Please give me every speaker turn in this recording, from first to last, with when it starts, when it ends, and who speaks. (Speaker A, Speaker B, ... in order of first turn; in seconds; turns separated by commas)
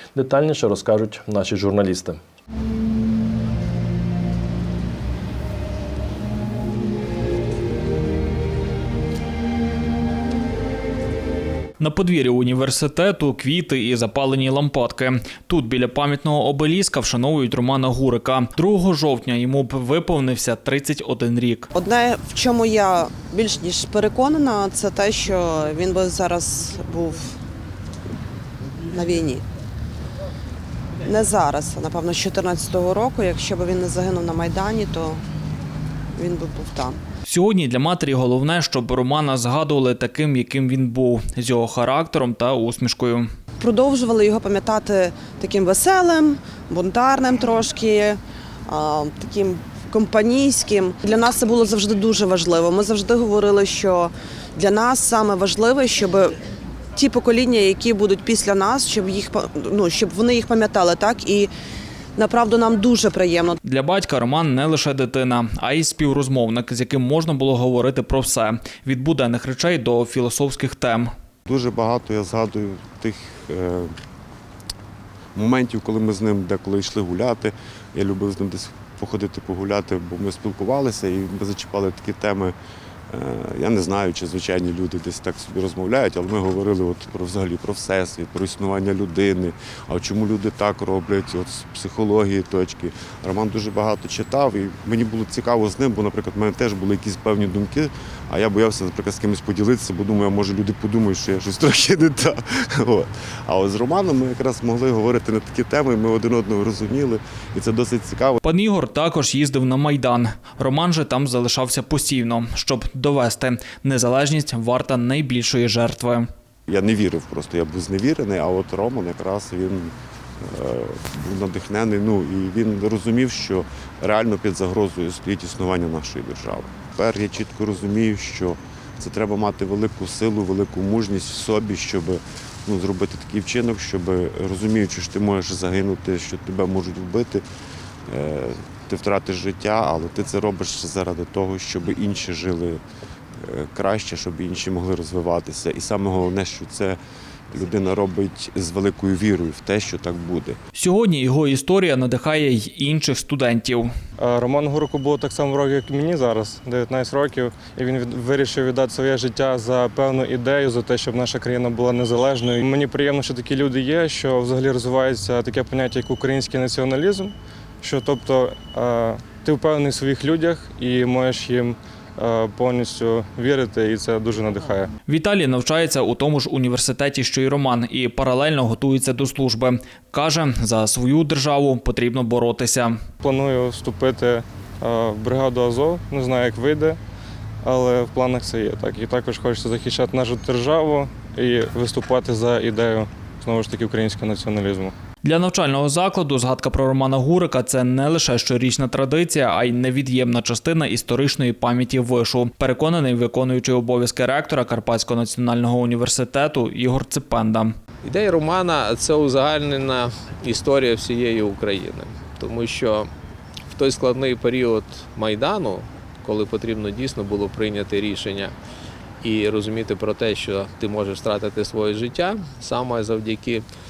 Speaker A: 0.1-2.2, Speaker B: 11.8-21.7, Speaker C: 21.7-27.3, Speaker C: 28.9-29.4, Speaker C: 31.1-35.2, Speaker C: 36.1-37.0, Speaker B: 37.2-43.2, Speaker C: 43.6-56.3, Speaker C: 57.0-61.5, Speaker C: 62.2-63.6, Speaker B: 63.6-71.1, Speaker D: 71.5-73.9, Speaker D: 75.3-82.6, Speaker D: 83.1-108.4, Speaker B: 108.4-116.2, Speaker D: 116.7-137.4, Speaker D: 138.1-142.8, Speaker D: 143.4-147.0, Speaker D: 147.5-150.6, Speaker B: 150.8-153.9, Speaker E: 154.2-174.9, Speaker B: 175.1-182.9, Speaker E: 183.2-187.0, Speaker E: 187.6-194.9, Speaker B: 195.2-207.7, Speaker F: 208.0-213.1, Speaker F: 213.7-218.6, Speaker F: 219.2-223.7